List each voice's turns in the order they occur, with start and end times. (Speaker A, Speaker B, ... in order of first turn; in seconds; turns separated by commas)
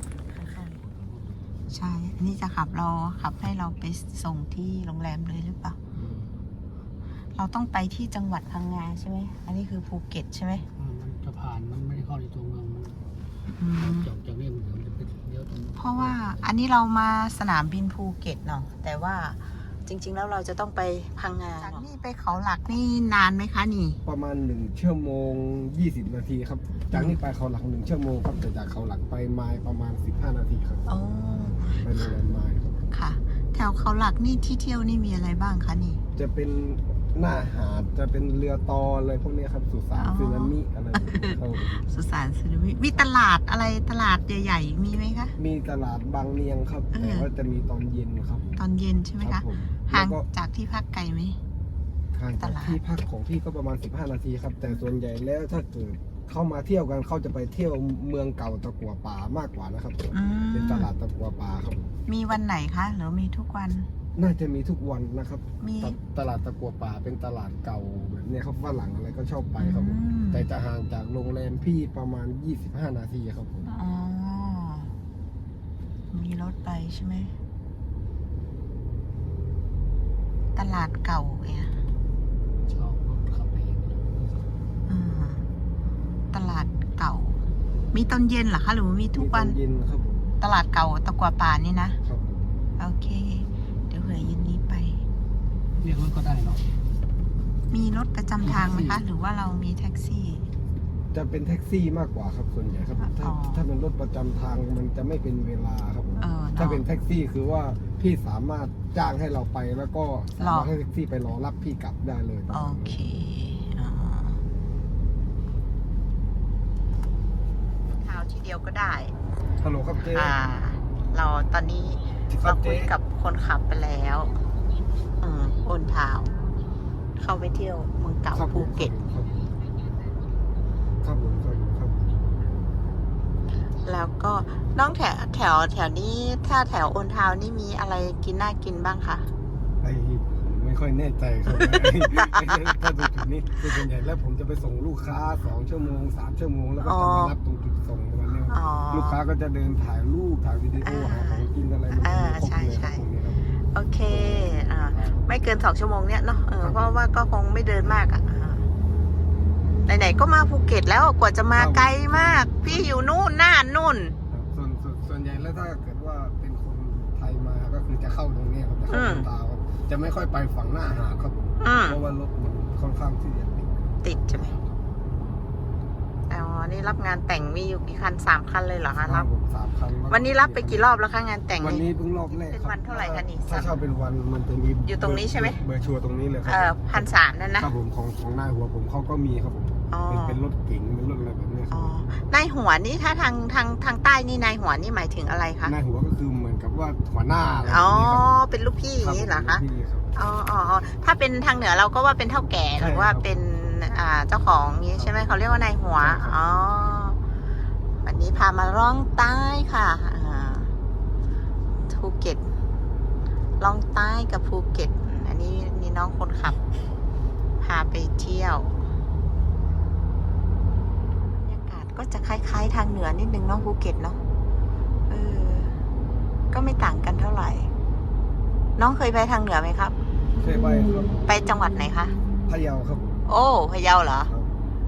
Speaker A: 0.3-0.8, Speaker B: 0.5-1.6, Speaker A: 1.7-5.8, Speaker B: 5.9-6.4, Speaker A: 7.3-10.7, Speaker B: 10.7-13.0, Speaker A: 13.5-14.1, Speaker B: 13.7-16.5, Speaker A: 15.8-24.0, Speaker C: 24.0-31.0, Speaker A: 26.9-27.2, Speaker A: 30.9-32.1, Speaker C: 31.8-32.8, Speaker A: 32.9-36.0, Speaker C: 36.1-41.9, Speaker A: 39.9-45.3, Speaker C: 45.4-48.6, Speaker A: 46.9-47.3, Speaker A: 48.6-51.4, Speaker C: 49.2-50.3, Speaker C: 52.1-61.9, Speaker A: 52.3-52.8, Speaker A: 60.1-60.9, Speaker A: 62.1-63.9, Speaker C: 64.1-73.7, Speaker A: 65.6-66.0, Speaker A: 69.6-70.5, Speaker A: 73.7-74.9, Speaker A: 76.1-77.3, Speaker A: 80.5-81.8, Speaker B: 82.7-84.4, Speaker A: 84.9-85.5, Speaker A: 86.3-89.6, Speaker C: 89.1-90.4, Speaker A: 90.4-92.0, Speaker C: 92.0-92.6, Speaker A: 92.8-95.0, Speaker B: 95.8-96.7, Speaker A: 97.7-100.5, Speaker B: 98.4-99.0, Speaker C: 101.1-113.0, Speaker A: 103.0-103.6, Speaker A: 106.2-106.8, Speaker A: 110.3-110.7, Speaker A: 112.5-114.4, Speaker A: 117.8-119.1, Speaker C: 119.6-120.4, Speaker A: 120.0-124.3, Speaker C: 122.3-122.9, Speaker A: 125.2-126.3, Speaker A: 127.2-128.9, Speaker C: 128.3-129.4, Speaker C: 131.0-132.2, Speaker A: 133.8-139.3, Speaker C: 139.8-153.5, Speaker A: 141.5-142.4, Speaker A: 146.8-147.3, Speaker A: 148.5-149.2, Speaker A: 150.8-153.0, Speaker A: 153.7-158.7, Speaker C: 154.1-155.4, Speaker C: 156.6-157.0, Speaker A: 159.8-164.2, Speaker C: 161.5-163.2, Speaker C: 164.3-173.8, Speaker A: 168.9-169.3, Speaker A: 171.6-172.0, Speaker A: 174.0-174.6, Speaker B: 174.3-174.7, Speaker A: 176.3-179.3, Speaker C: 179.0-180.9, Speaker A: 180.1-183.7, Speaker C: 181.6-191.9, Speaker A: 184.8-185.6, Speaker A: 186.4-187.7, Speaker A: 189.9-190.4, Speaker A: 191.7-195.7, Speaker C: 195.6-198.3, Speaker A: 197.7-199.6, Speaker C: 199.0-200.2, Speaker A: 200.1-207.2, Speaker C: 202.7-203.3, Speaker C: 204.9-206.4, Speaker A: 208.0-210.7, Speaker A: 211.9-212.4, Speaker A: 213.6-216.6, Speaker A: 217.6-218.8, Speaker A: 221.3-224.2, Speaker A: 225.1-225.8, Speaker A: 226.5-227.7, Speaker A: 228.8-229.9, Speaker C: 230.4-231.4, Speaker A: 231.2-232.2, Speaker C: 232.4-233.1, Speaker A: 233.2-234.3, Speaker C: 234.2-234.6